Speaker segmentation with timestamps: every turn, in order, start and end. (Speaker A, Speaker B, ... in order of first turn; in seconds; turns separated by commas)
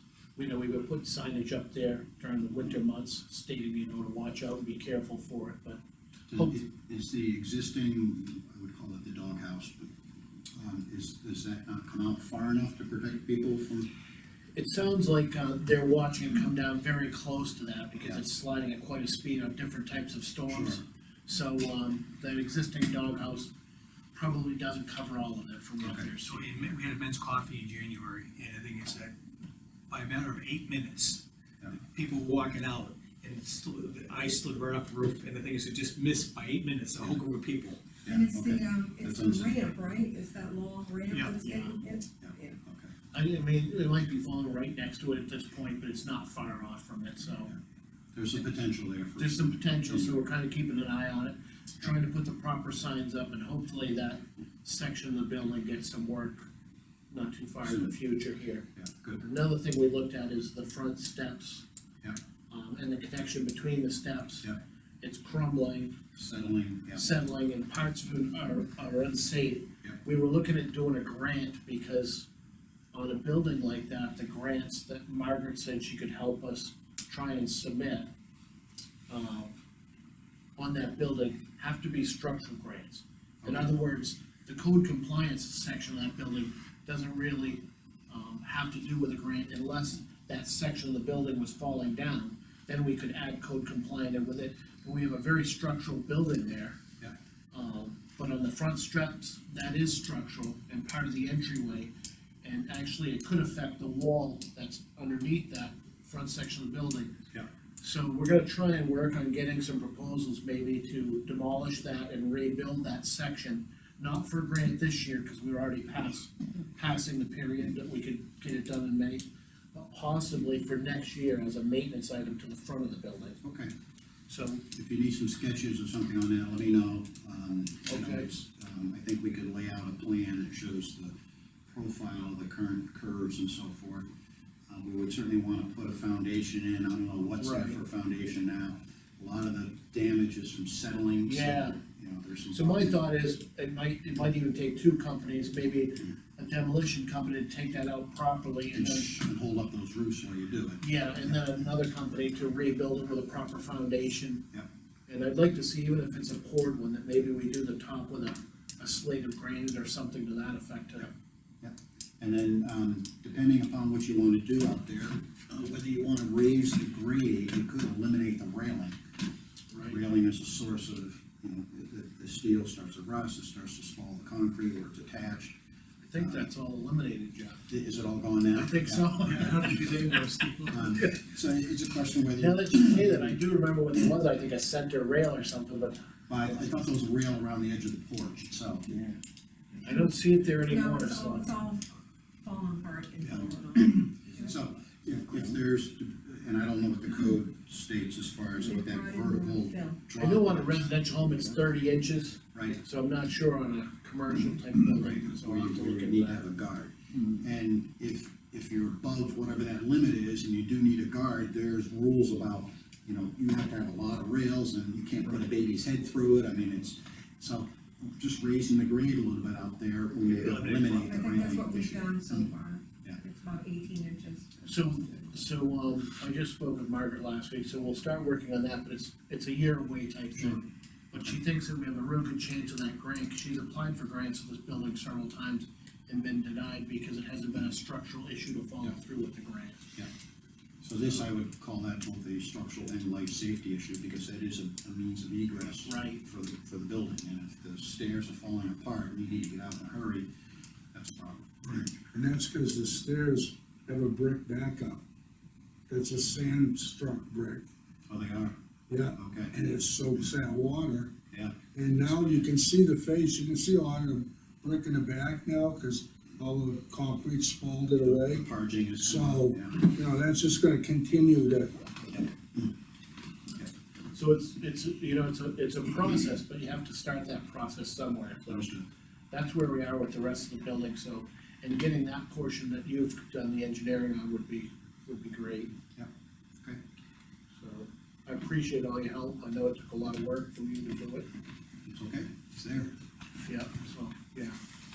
Speaker A: 0.3-5.8, Speaker B: 6.3-9.9, Speaker B: 10.6-13.9, Speaker A: 14.6-23.5, Speaker B: 20.5-20.8, Speaker A: 24.1-26.4, Speaker B: 25.8-26.1, Speaker C: 26.2-29.1, Speaker C: 29.9-31.2, Speaker C: 31.9-37.9, Speaker B: 38.0-39.8, Speaker D: 38.0-42.5, Speaker A: 41.4-41.7, Speaker B: 42.2-42.9, Speaker A: 43.1-47.5, Speaker B: 48.1-50.1, Speaker A: 49.2-56.5, Speaker A: 57.1-58.6, Speaker B: 57.6-57.9, Speaker B: 58.8-59.2, Speaker A: 59.2-61.6, Speaker A: 62.5-64.5, Speaker A: 65.0-66.1, Speaker B: 66.2-67.0, Speaker A: 66.9-72.3, Speaker A: 72.9-78.1, Speaker A: 79.1-79.5, Speaker A: 80.6-96.8, Speaker B: 83.4-83.7, Speaker A: 97.5-101.9, Speaker A: 102.4-107.2, Speaker A: 107.8-123.4, Speaker B: 123.4-123.7, Speaker A: 124.3-124.6, Speaker B: 124.7-131.1, Speaker A: 127.9-128.2, Speaker B: 131.7-134.1, Speaker B: 134.7-143.0, Speaker A: 137.4-137.8, Speaker A: 141.2-141.8, Speaker A: 142.5-149.1, Speaker B: 148.7-151.4, Speaker A: 150.8-154.4, Speaker A: 155.1-161.1, Speaker B: 161.6-168.9, Speaker A: 169.7-170.0, Speaker B: 169.8-175.6, Speaker A: 176.0-177.6, Speaker B: 176.2-176.5, Speaker B: 177.7-179.9, Speaker A: 178.5-181.2, Speaker C: 179.4-180.5, Speaker B: 180.7-183.4, Speaker A: 182.4-186.1, Speaker B: 186.3-188.9, Speaker A: 189.8-191.5, Speaker D: 190.7-191.9, Speaker D: 192.4-193.9, Speaker B: 193.2-200.9, Speaker D: 198.6-200.0, Speaker A: 200.2-206.6, Speaker B: 202.5-202.8, Speaker B: 205.1-222.5, Speaker C: 220.2-221.2, Speaker D: 221.0-224.6, Speaker A: 224.6-239.8, Speaker B: 240.8-250.3, Speaker A: 245.8-246.2, Speaker B: 250.9-252.0, Speaker E: 252.1-255.0, Speaker E: 255.9-257.6, Speaker B: 258.1-258.6, Speaker E: 258.9-261.1, Speaker B: 259.1-259.5, Speaker B: 261.3-262.4, Speaker E: 261.7-268.5, Speaker B: 268.0-269.8, Speaker E: 269.0-271.8, Speaker A: 274.1-278.8, Speaker B: 278.5-278.9, Speaker A: 279.3-285.7, Speaker B: 285.9-286.8, Speaker A: 287.6-291.3, Speaker B: 291.9-292.9, Speaker A: 293.4-294.6